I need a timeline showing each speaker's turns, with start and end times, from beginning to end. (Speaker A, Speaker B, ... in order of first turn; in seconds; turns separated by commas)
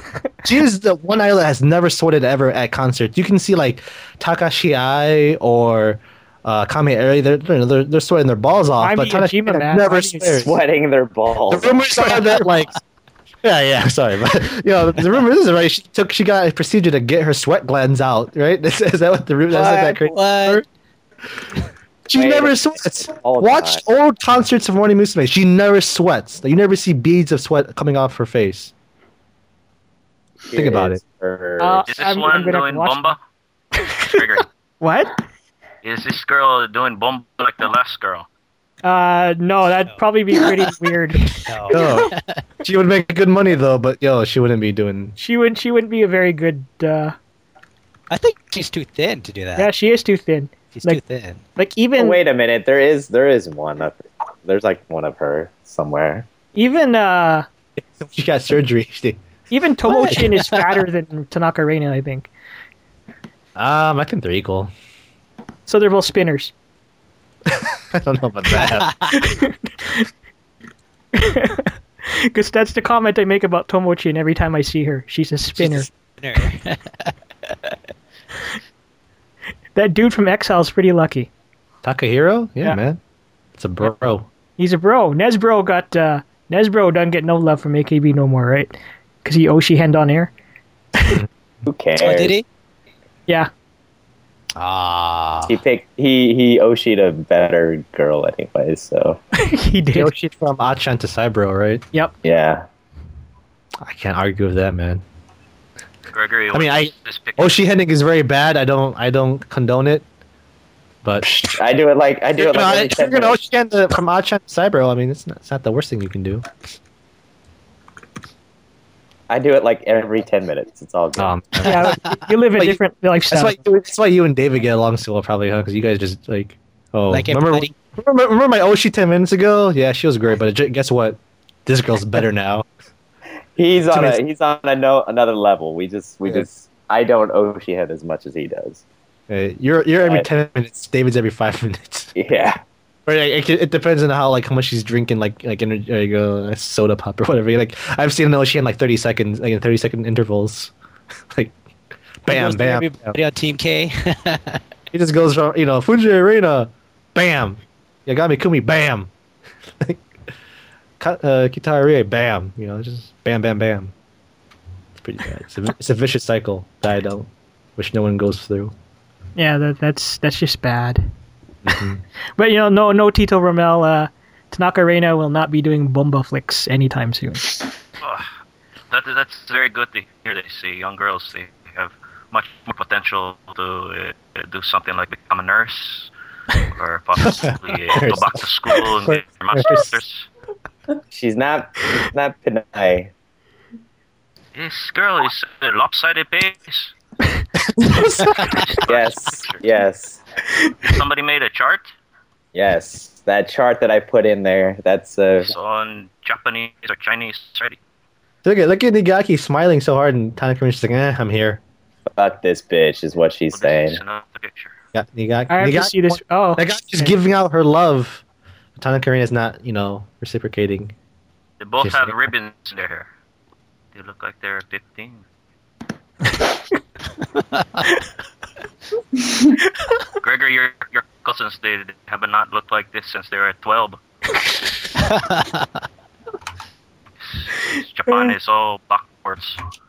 Speaker A: 0.4-10.5, Speaker B: 8.8-10.5, Speaker C: 10.4-12.1, Speaker A: 11.5-12.7, Speaker A: 13.4-20.6, Speaker D: 19.5-20.6, Speaker A: 22.1-28.7, Speaker C: 22.1-23.8, Speaker C: 30.5-31.9, Speaker A: 30.5-31.0, Speaker B: 31.6-33.1, Speaker E: 31.9-33.2, Speaker B: 33.8-34.2, Speaker E: 34.1-34.5, Speaker B: 34.8-35.2, Speaker E: 35.8-38.2, Speaker B: 38.8-41.9, Speaker D: 41.5-42.4, Speaker A: 41.7-45.1, Speaker B: 45.2-47.1, Speaker D: 48.1-49.7, Speaker B: 49.5-51.0, Speaker D: 50.7-51.4, Speaker B: 51.5-52.2, Speaker C: 52.0-56.2, Speaker B: 56.5-57.5, Speaker A: 57.8-59.2, Speaker B: 59.5-62.3, Speaker A: 59.9-60.3, Speaker D: 60.1-60.4, Speaker A: 63.5-64.7, Speaker B: 65.7-66.5, Speaker A: 67.5-68.9, Speaker D: 68.5-69.1, Speaker B: 69.1-70.1, Speaker B: 71.1-75.9, Speaker D: 75.5-77.1, Speaker B: 79.7-81.3, Speaker A: 81.8-83.0, Speaker A: 83.5-84.3, Speaker B: 84.6-90.3, Speaker C: 91.6-92.4, Speaker D: 92.0-92.4, Speaker D: 94.6-95.6, Speaker C: 95.5-99.2, Speaker B: 99.3-100.1, Speaker A: 99.9-101.8, Speaker C: 102.2-102.6, Speaker A: 103.8-105.0, Speaker E: 106.1-107.5, Speaker A: 106.5-110.0, Speaker A: 111.0-111.3, Speaker C: 111.2-113.4, Speaker A: 112.3-116.5, Speaker C: 119.3-121.4, Speaker A: 121.2-122.0, Speaker B: 121.6-123.6, Speaker D: 121.8-122.1, Speaker A: 123.3-132.7, Speaker D: 127.1-127.7, Speaker C: 133.6-138.8, Speaker A: 133.9-134.2, Speaker A: 139.3-142.1, Speaker C: 140.0-140.3, Speaker C: 142.2-142.6, Speaker A: 143.1-150.7, Speaker A: 152.2-153.2, Speaker D: 152.3-154.6, Speaker A: 154.9-159.1, Speaker A: 161.0-163.9, Speaker A: 165.0-168.7, Speaker B: 169.3-171.0, Speaker A: 171.6-172.0, Speaker B: 172.4-177.5, Speaker E: 178.0-178.3, Speaker E: 178.9-186.1, Speaker E: 186.6-190.3, Speaker A: 187.5-188.4, Speaker A: 189.0-189.9, Speaker C: 191.1-193.1, Speaker E: 194.5-196.9, Speaker A: 197.7-198.6, Speaker E: 198.3-199.7, Speaker C: 198.9-200.2, Speaker E: 200.8-201.9, Speaker C: 202.5-205.5, Speaker E: 205.4-207.8, Speaker A: 208.4-211.6, Speaker C: 212.2-214.0, Speaker E: 213.5-214.7, Speaker A: 214.9-218.2, Speaker B: 215.5-217.2, Speaker A: 218.8-220.9, Speaker E: 221.6-223.1, Speaker A: 221.8-222.3, Speaker E: 223.9-225.2, Speaker E: 230.2-234.0, Speaker D: 235.0-235.7, Speaker E: 237.2-239.6, Speaker B: 238.1-238.3